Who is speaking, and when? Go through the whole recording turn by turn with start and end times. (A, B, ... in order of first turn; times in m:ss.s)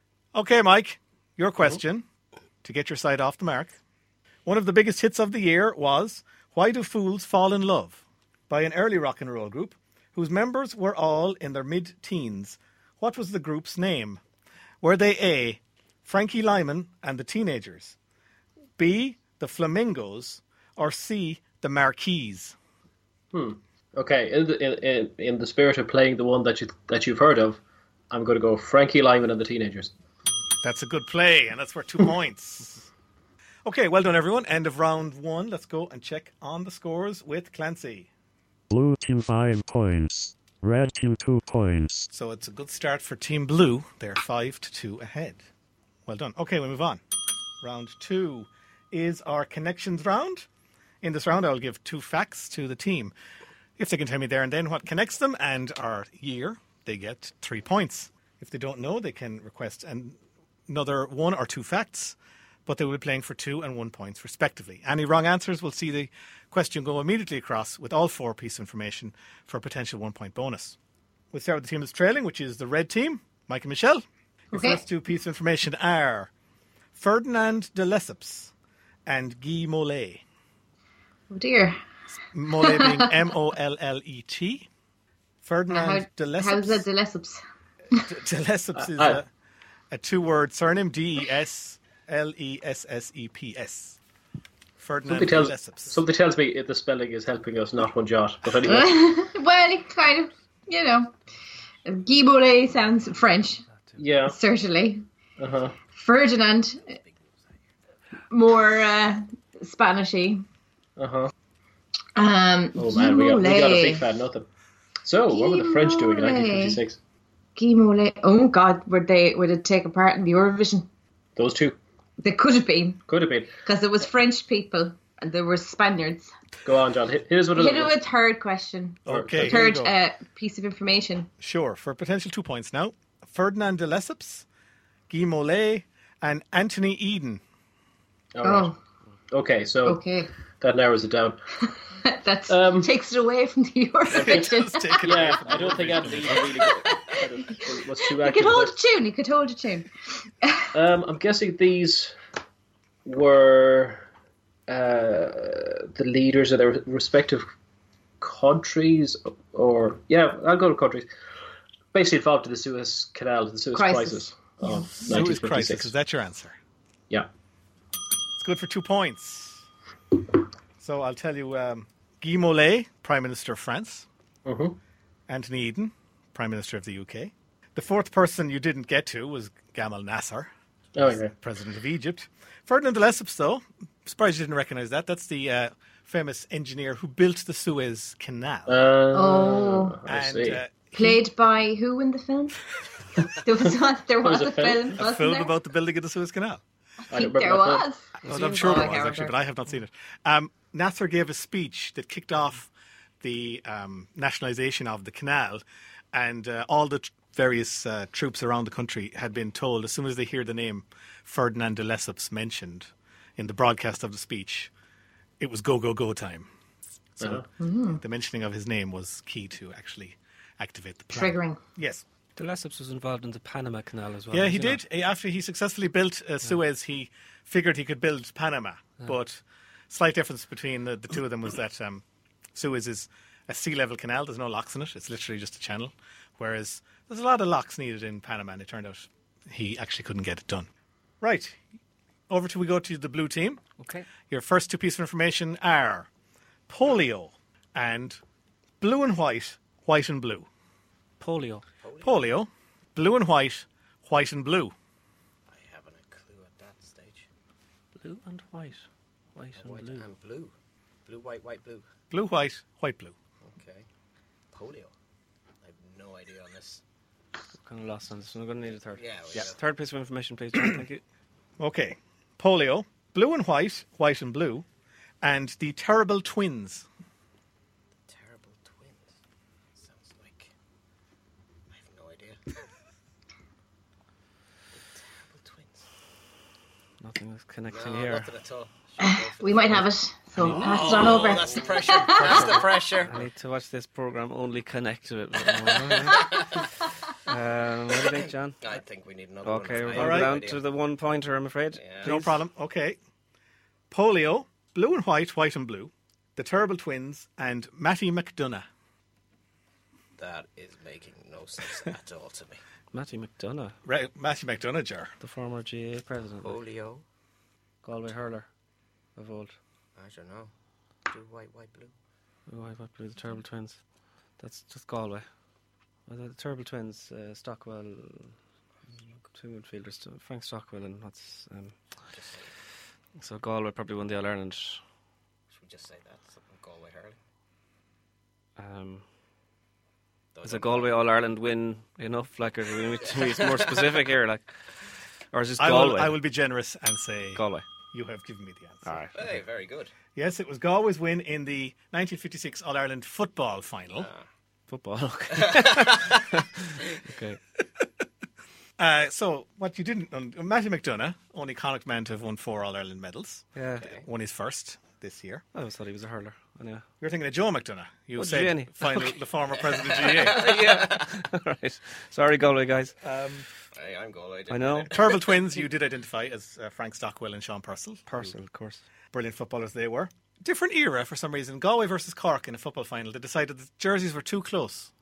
0:00.3-0:02.1 A
0:02.6-0:03.8 A
0:04.4-0:14.2 A
0:14.8-0:18.0 A
0:18.8-0:22.6 A
0:23.3-0:27.6 B
0:28.1-0:29.9 B
0:30.6-0:32.9 A
0:33.6-0:38.1 A
0:38.7-0:42.1 C
0:42.1-0:45.4 A
0:46.1-0:47.0 A
0:47.6-0:50.5 A
0:51.0-0:53.1 A
0:53.8-1:10.8 A
1:11.3-1:16.3 A
1:14.5-1:14.8 D
1:16.9-1:18.5 A
1:19.1-1:20.2 A
1:21.3-1:21.8 D
1:22.3-1:24.7 A
1:22.6-1:23.1 D
1:25.4-1:26.9 A
1:25.7-1:27.4 D
1:27.9-1:29.3 A
1:28.8-1:29.2 B
1:29.9-1:34.0 A
1:34.8-1:36.0 A
1:35.1-1:39.0 B
1:38.7-1:41.2 D
1:41.9-1:43.6 D
1:44.0-1:44.4 B
1:44.2-1:45.0 D
1:45.4-1:45.8 B
1:45.9-1:46.9 D
1:46.9-1:47.7 E
1:48.3-1:50.4 D
1:51.0-1:51.3 B
1:52.2-1:54.0 D
1:52.8-1:54.5 B
1:55.0-1:57.0 B
1:55.3-1:56.8 D
1:57.6-2:00.9 D
2:01.4-2:01.8 B
2:02.2-2:03.0 D
2:03.1-2:03.5 B
2:03.6-2:06.3 D
2:06.6-2:08.0 B
2:07.5-2:11.3 D
2:09.1-2:09.9 A
2:09.1-2:09.6 B
2:11.4-2:14.4 A
2:15.1-2:17.4 A
2:18.4-2:18.7 B
2:18.4-2:18.8 D
2:19.3-2:20.0 B
2:19.9-2:20.3 D
2:20.6-2:21.4 B
2:22.0-2:29.9 D
2:22.5-2:22.9 B
2:24.1-2:26.8 A
2:24.1-2:28.7 B
2:30.4-2:30.7 D
2:30.7-2:32.2 B
2:33.0-2:34.1 B
2:34.7-2:37.5 B
2:38.2-2:41.1 B
2:41.9-2:45.9 B
2:43.8-2:45.1 D
2:45.0-2:46.6 A
2:48.4-2:49.6 A
2:50.8-2:54.1 A
2:54.4-2:54.8 B
2:55.3-3:08.9 A
3:01.0-3:01.3 B
3:08.7-3:10.6 B
3:09.1-3:10.0 D
3:10.1-3:10.7 A
3:10.9-3:12.6 D
3:13.4-3:15.5 D
3:14.2-3:15.0 B
3:15.0-3:16.6 A
3:17.1-3:19.4 D
3:17.1-3:17.9 B
3:18.2-3:22.7 A
3:18.3-3:19.0 F
3:23.2-3:34.7 A
3:35.4-3:36.5 A
3:37.2-3:42.0 A
3:37.2-3:37.5 B
3:37.6-3:38.0 D
3:41.1-3:41.6 D
3:42.4-3:44.8 F
3:44.3-3:52.0 A
3:52.5-4:00.7 A
4:01.2-4:01.6 A
4:02.3-4:03.6 A
4:03.8-4:04.1 F
4:04.3-4:06.1 A
4:06.7-4:08.2 A
4:08.8-4:10.5 A
4:11.2-4:11.6 F
4:11.8-4:12.3 E
4:12.0-4:14.7 A
4:15.5-4:17.3 E
4:18.0-4:20.1 F
4:19.6-4:20.5 E
4:21.1-4:21.9 E
4:22.1-4:23.1 A
4:23.4-4:23.9 E
4:24.5-4:24.9 E
4:25.6-4:26.8 E
4:27.6-4:31.0 F
4:28.9-4:29.6 E
4:31.6-4:34.6 A
4:35.2-4:36.9 A
4:38.1-4:39.2 E
4:39.8-4:40.5 E
4:41.7-4:42.4 E
4:44.7-4:45.8 E
4:47.0-4:48.3 F
4:47.7-4:49.9 E
4:49.0-4:52.2 D
4:50.5-4:56.6 F
4:50.5-4:53.2 E
4:55.7-4:56.6 E
4:57.3-4:58.7 F
4:58.6-5:00.6 E
4:59.4-5:02.3 F
4:59.9-5:00.4 A
5:01.8-5:02.1 E
5:02.0-5:03.0 A
5:03.9-5:08.7 A
5:10.2-5:12.6 E
5:12.9-5:13.8 F
5:13.8-5:15.1 A
5:15.2-5:16.6 F
5:16.4-5:17.0 E
5:17.8-5:18.5 F
5:19.2-5:19.5 F
5:20.0-5:20.5 E
5:21.1-5:21.9 E
5:22.5-5:23.8 F
5:24.4-5:25.2 F
5:26.1-5:28.4 F
5:29.3-5:31.8 F
5:32.1-5:32.5 E
5:33.2-5:34.8 F
5:35.5-5:37.2 E
5:38.6-5:39.0 F
5:40.3-5:41.0 E
5:40.4-5:44.5 F
5:43.0-5:44.0 E
5:45.3-5:46.2 F
5:45.6-5:47.4 A
5:47.4-5:47.6 F
5:47.9-5:49.0 A
5:48.9-5:49.2 F
5:49.1-5:49.9 E
5:50.1-5:54.1 A
5:54.7-5:57.4 F
5:55.4-5:56.1 E
5:58.8-6:05.4 A
6:03.5-6:03.9 F
6:05.5-6:06.8 F
6:07.0-6:10.5 A
6:08.2-6:09.1 F
6:09.6-6:11.1 E
6:10.2-6:12.9 F
6:13.0-6:13.5 A
6:13.7-6:15.4 E
6:14.5-6:14.9 F
6:14.9-6:18.3 A
6:18.1-6:18.8 F
6:19.1-6:24.9 A